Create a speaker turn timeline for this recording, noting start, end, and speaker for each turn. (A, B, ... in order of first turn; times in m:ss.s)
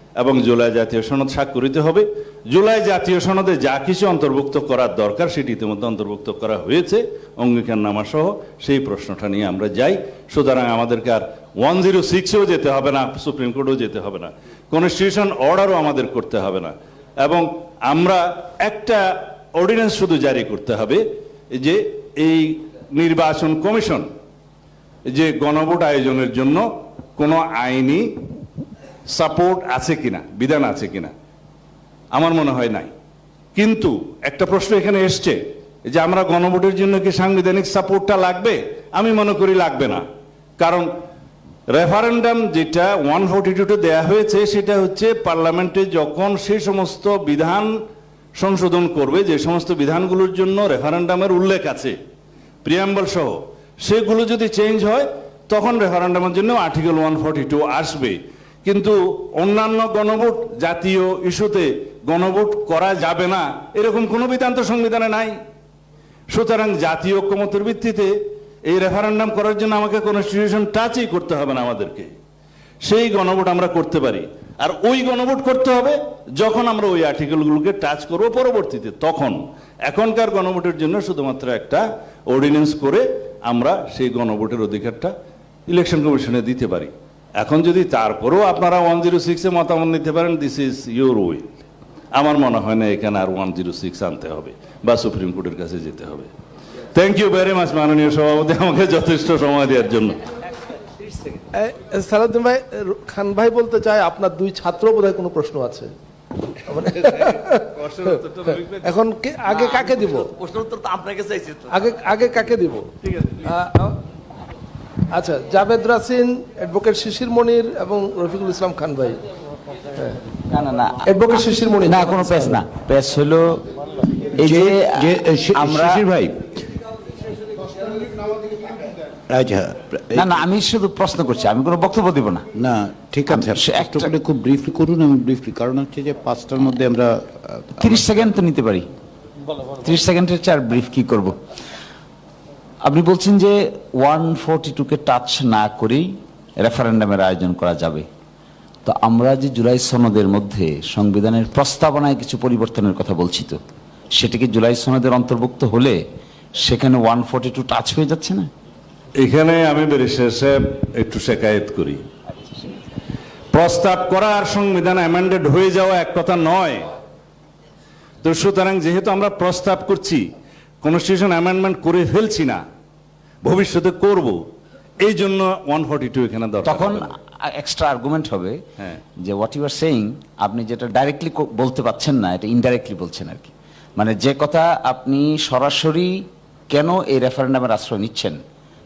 0:00.2-0:24.1 A
0:25.1-0:28.1 A
0:29.1-0:31.1 A
0:32.1-0:32.9 A
0:33.6-0:40.0 A
0:40.6-0:40.9 A
0:41.7-0:47.8 A
0:48.4-0:52.0 A
0:52.6-1:05.4 A
1:06.3-1:12.1 A
1:12.8-1:25.1 A
1:25.7-1:36.3 A
1:36.9-1:40.2 A
1:41.5-1:45.9 B
1:46.6-1:47.7 B
1:47.2-1:48.9 A
1:48.8-1:50.3 B
1:49.5-1:51.7 C
1:51.7-1:54.0 B
1:55.1-1:59.2 B
2:00.5-2:03.6 D
2:01.0-2:02.6 B
2:04.4-2:06.0 D
2:04.4-2:06.6 E
2:09.3-2:10.4 E
2:10.1-2:12.4 D
2:12.5-2:18.2 E
2:13.3-2:14.1 D
2:17.8-2:18.9 D
2:19.7-2:21.4 D
2:22.8-2:28.0 D
2:28.8-2:33.6 D
2:34.2-2:36.0 D
2:36.6-2:38.5 D
2:39.2-2:42.0 A
2:43.5-2:46.9 A
2:48.2-2:50.3 A
2:50.8-2:52.6 A
2:53.4-2:54.4 A
2:55.0-2:57.1 A
2:56.6-2:58.6 D
2:59.2-3:08.4 D